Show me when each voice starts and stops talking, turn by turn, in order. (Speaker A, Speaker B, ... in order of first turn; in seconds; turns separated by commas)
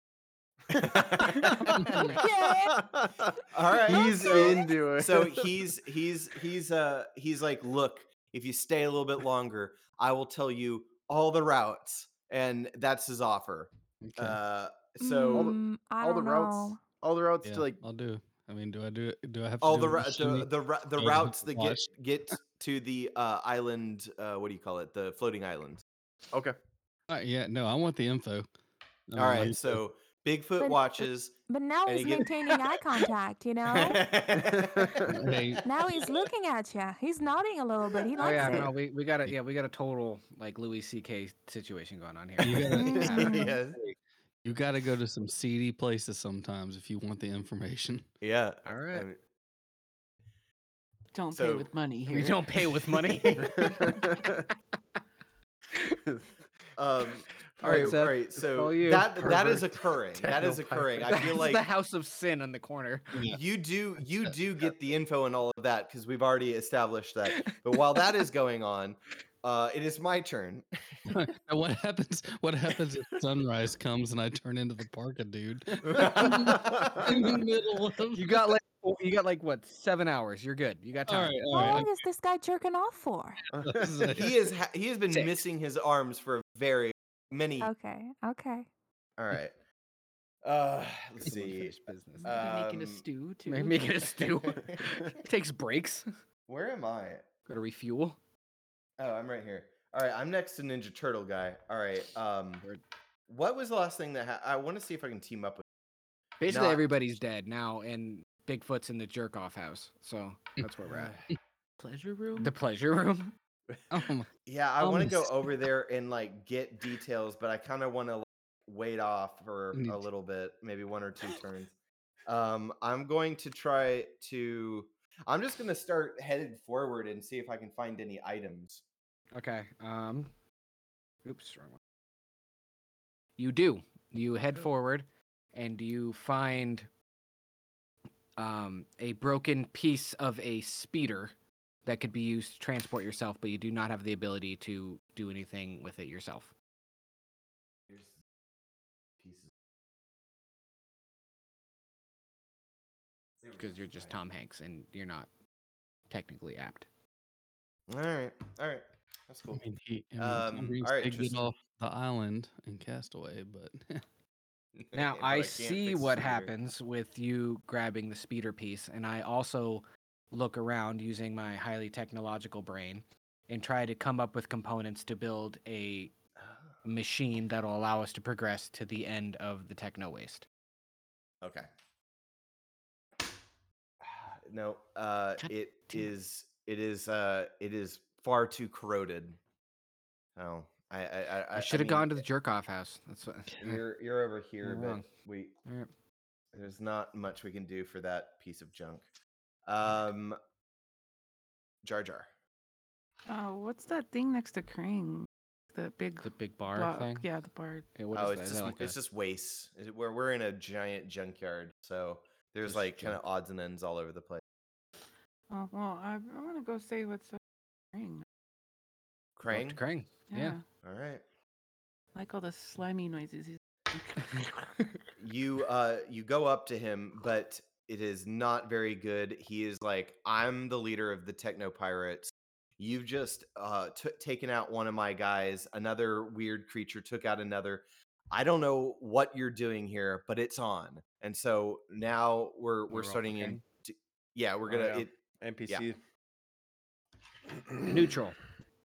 Speaker A: 0.7-2.1, Speaker B: 0.7-5.6, Speaker C: 1.8-2.0, Speaker D: 2.0-2.9, Speaker A: 3.5-15.6, Speaker D: 3.9-4.8, Speaker C: 14.0-14.4, Speaker D: 15.0-16.8, Speaker B: 15.3-17.8, Speaker C: 17.4-21.9, Speaker A: 19.6-25.8, Speaker C: 27.1-28.5, Speaker C: 29.1-29.8, Speaker A: 29.2-32.7, Speaker D: 30.6-34.0, Speaker A: 33.7-36.2, Speaker B: 34.3-35.1, Speaker C: 35.1-35.6, Speaker D: 35.6-38.7, Speaker E: 38.2-43.1, Speaker C: 42.4-48.1, Speaker D: 42.8-43.6, Speaker A: 43.0-43.8, Speaker A: 48.2-49.2, Speaker E: 48.7-49.0, Speaker F: 51.1-52.4, Speaker A: 51.3-51.7, Speaker E: 52.1-54.3, Speaker B: 53.4-54.4, Speaker E: 55.7-56.0, Speaker A: 56.8-61.6, Speaker B: 57.6-58.0, Speaker E: 57.6-59.6, Speaker B: 59.3-59.6, Speaker B: 60.2-61.1, Speaker E: 61.1-63.3, Speaker A: 63.3-70.7, Speaker E: 67.3-67.6, Speaker C: 71.1-78.6, Speaker A: 75.8-77.1, Speaker E: 78.1-81.8, Speaker C: 81.1-81.9, Speaker D: 81.5-83.4, Speaker C: 83.5-84.3, Speaker B: 83.5-84.1, Speaker A: 84.2-87.7, Speaker D: 87.6-88.7, Speaker A: 89.2-89.5, Speaker A: 90.4-93.1, Speaker E: 91.2-92.4, Speaker F: 92.2-94.1, Speaker E: 93.5-96.1, Speaker A: 94.5-94.8, Speaker A: 96.5-97.3, Speaker E: 97.5-98.2, Speaker A: 99.0-102.7, Speaker A: 103.3-105.6, Speaker E: 106.4-111.2, Speaker A: 106.5-106.9, Speaker F: 111.8-112.5, Speaker E: 112.4-113.3, Speaker C: 113.9-114.3, Speaker A: 114.5-121.7, Speaker C: 114.8-115.3, Speaker C: 119.7-120.0, Speaker A: 122.3-128.8, Speaker E: 129.3-130.3, Speaker E: 131.2-131.8, Speaker E: 133.4-136.9, Speaker E: 138.4-141.3, Speaker E: 141.8-146.5, Speaker A: 147.9-148.2, Speaker A: 149.2-149.5, Speaker A: 153.4-154.1, Speaker E: 153.6-155.3, Speaker E: 156.1-156.9, Speaker A: 157.9-159.6, Speaker C: 159.5-164.0, Speaker A: 160.2-161.5, Speaker A: 164.8-166.5, Speaker E: 164.9-176.1, Speaker E: 176.8-180.5, Speaker A: 181.4-181.7, Speaker A: 184.0-189.4, Speaker E: 185.4-186.1, Speaker A: 190.4-192.2, Speaker E: 191.6-193.8, Speaker A: 193.6-195.6, Speaker E: 194.6-195.1, Speaker A: 196.5-199.1, Speaker A: 199.7-200.4, Speaker A: 201.8-202.3, Speaker F: 203.3-207.9, Speaker E: 206.2-207.2, Speaker E: 208.0-209.0, Speaker A: 208.1-214.4, Speaker E: 212.7-213.2, Speaker F: 215.5-217.4, Speaker F: 217.9-218.2, Speaker A: 219.4-219.8, Speaker E: 219.5-220.6, Speaker F: 220.3-220.6, Speaker A: 220.8-221.2, Speaker F: 222.2-224.3, Speaker A: 225.2-245.1, Speaker E: 242.9-243.6, Speaker B: 244.7-246.0, Speaker B: 247.5-247.9, Speaker E: 247.9-248.4